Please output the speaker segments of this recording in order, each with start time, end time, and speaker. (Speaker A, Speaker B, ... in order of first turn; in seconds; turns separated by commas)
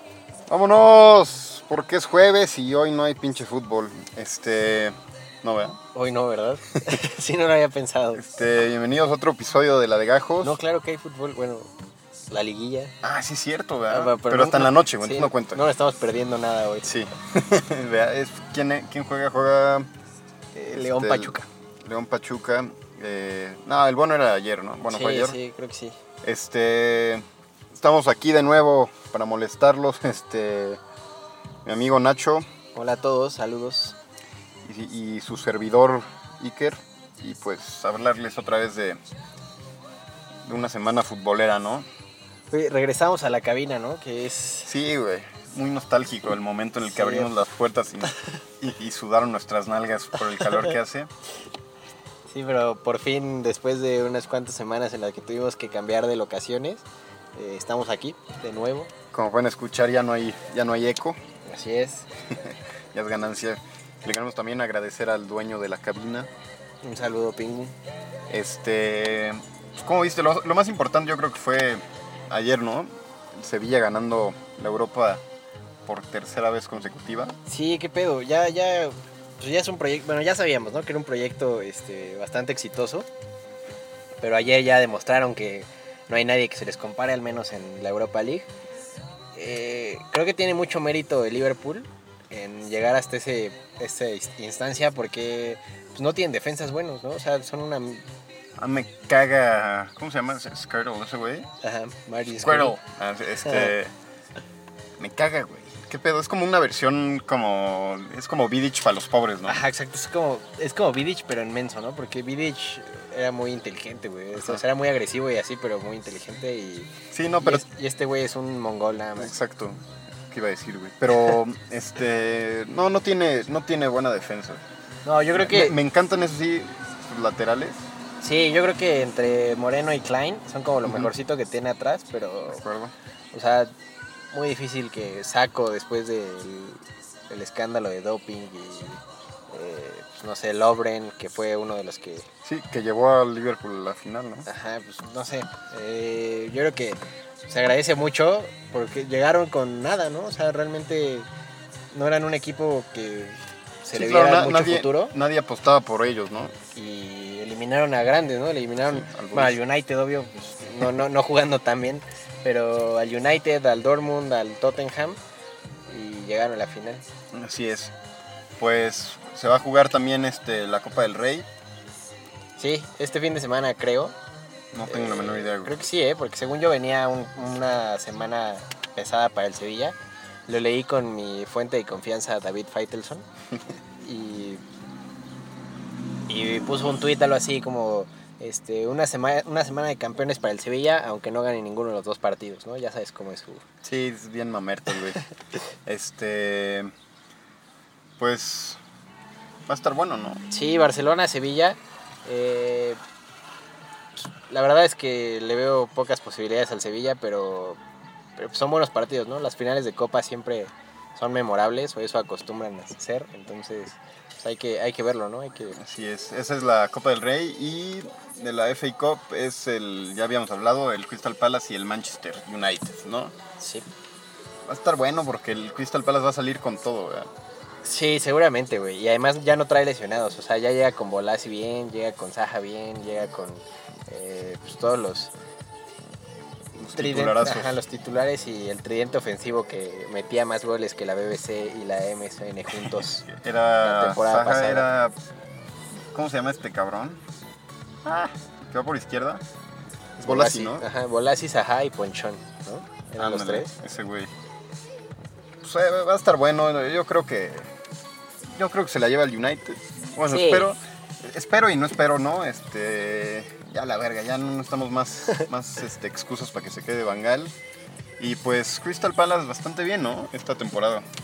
Speaker A: 0.5-5.8, Speaker B: 5.9-8.2, Speaker A: 8.1-10.6, Speaker B: 10.4-11.7, Speaker B: 12.3-12.9, Speaker A: 13.0-15.6, Speaker B: 13.9-16.9, Speaker A: 16.8-19.9, Speaker B: 20.6-21.5, Speaker A: 20.7-25.4, Speaker B: 24.9-26.0, Speaker A: 26.2-27.2, Speaker A: 27.7-30.8, Speaker A: 31.6-32.5, Speaker B: 32.7-34.0, Speaker A: 34.6-39.0, Speaker A: 40.5-41.9, Speaker B: 42.5-44.7, Speaker A: 44.7-51.1, Speaker B: 46.9-47.3, Speaker B: 52.3-56.8, Speaker B: 57.4-58.9, Speaker A: 59.1-61.2, Speaker B: 61.5-62.1, Speaker A: 62.3-66.3, Speaker B: 66.8-67.8, Speaker A: 68.3-75.2, Speaker A: 75.8-77.4, Speaker B: 77.5-83.1, Speaker B: 84.2-88.5, Speaker B: 89.3-98.0, Speaker A: 98.6-101.5, Speaker B: 101.6-102.8, Speaker A: 102.3-103.9, Speaker B: 103.4-103.7, Speaker A: 105.0-109.7, Speaker B: 109.4-119.3, Speaker A: 117.1-117.6, Speaker A: 119.2-124.6, Speaker B: 125.0-125.8, Speaker A: 125.3-127.8, Speaker B: 128.2-132.6, Speaker A: 132.5-132.9, Speaker B: 133.3-133.7, Speaker B: 134.3-142.3, Speaker A: 142.4-144.5, Speaker B: 144.5-151.3, Speaker B: 151.9-155.1, Speaker A: 153.9-156.5, Speaker B: 156.8-165.2, Speaker A: 158.8-159.6, Speaker B: 165.9-167.0, Speaker A: 167.3-167.9, Speaker A: 168.6-171.5, Speaker B: 172.6-174.2, Speaker A: 174.7-175.8, Speaker B: 174.9-180.0, Speaker B: 180.5-183.2, Speaker B: 184.0-184.6, Speaker B: 186.3-193.7, Speaker A: 193.8-195.2, Speaker A: 195.9-196.9, Speaker A: 198.2-198.8, Speaker A: 199.7-200.4, Speaker B: 200.5-203.0, Speaker B: 204.2-207.8, Speaker B: 208.4-215.8, Speaker A: 215.8-223.3, Speaker B: 223.6-223.9, Speaker A: 224.7-227.3, Speaker B: 227.8-235.3, Speaker A: 236.8-237.8, Speaker B: 237.0-243.3, Speaker A: 242.8-245.1, Speaker B: 243.8-244.8, Speaker A: 246.1-247.2, Speaker A: 248.0-249.4, Speaker A: 250.2-250.8, Speaker B: 250.2-253.7, Speaker A: 253.2-254.3, Speaker A: 255.6-257.7, Speaker A: 258.5-267.5, Speaker B: 260.3-260.7, Speaker A: 268.2-271.0